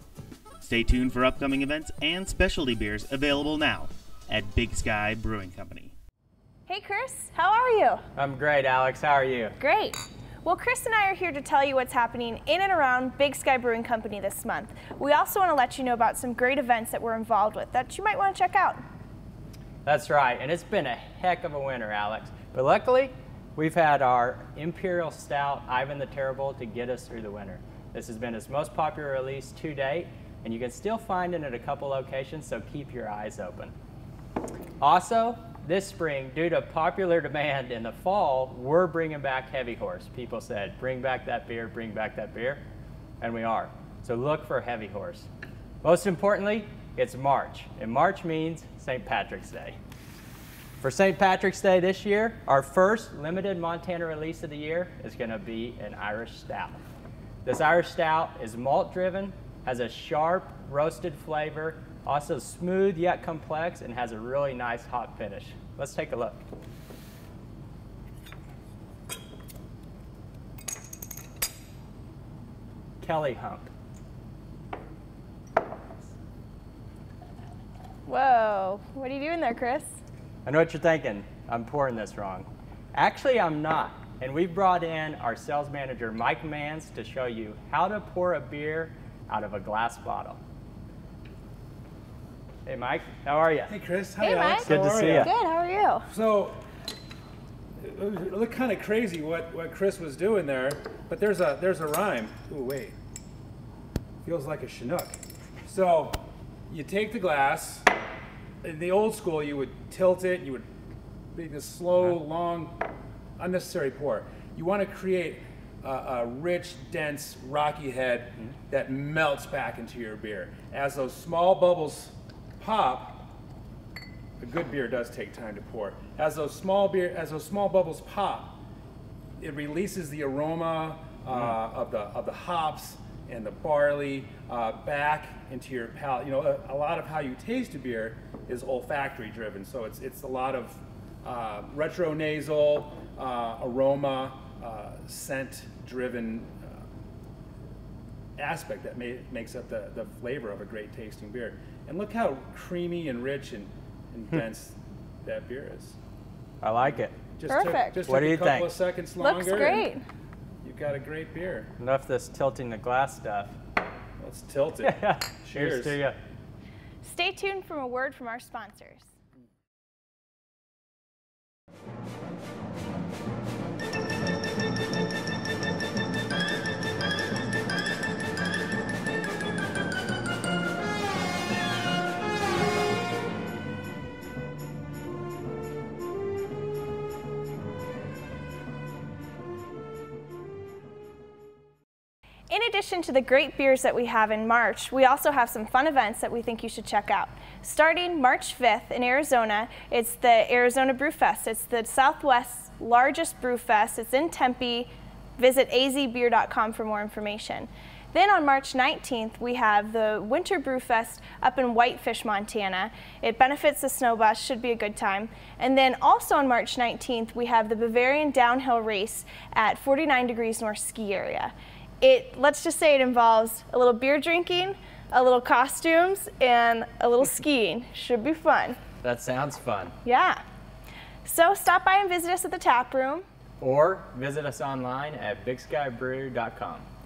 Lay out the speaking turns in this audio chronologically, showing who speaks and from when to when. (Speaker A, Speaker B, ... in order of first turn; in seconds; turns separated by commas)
Speaker A: 0.6-6.0, Speaker B: 6.7-8.0, Speaker C: 8.2-9.6, Speaker B: 9.6-18.8, Speaker C: 19.8-33.7, Speaker C: 34.8-42.6, Speaker C: 43.2-45.3, Speaker C: 45.8-49.8, Speaker C: 50.8-56.8, Speaker C: 57.5-66.4, Speaker C: 73.0-73.7, Speaker B: 78.1-80.0, Speaker C: 80.5-90.4, Speaker C: 92.7-93.8, Speaker D: 93.7-95.3, Speaker B: 94.2-96.0, Speaker C: 94.6-95.3, Speaker D: 96.1-96.6, Speaker D: 97.8-103.0, Speaker D: 104.2-107.9, Speaker D: 108.6-110.7, Speaker D: 111.3-112.8, Speaker D: 113.4-123.3, Speaker D: 124.4-128.6, Speaker D: 129.4-146.8, Speaker D: 148.4-156.0, Speaker C: 156.6-157.2, Speaker D: 157.3-159.9, Speaker B: 157.5-158.0, Speaker C: 158.1-158.8, Speaker B: 159.2-160.0, Speaker D: 160.6-161.7, Speaker C: 161.8-163.6, Speaker D: 164.2-166.0, Speaker C: 164.8-166.2, Speaker B: 167.0-169.1, Speaker B: 192.5-228.8, Speaker C: 229.0-229.9, Speaker B: 230.0-230.4, Speaker B: 231.2-233.2, Speaker C: 233.6-236.9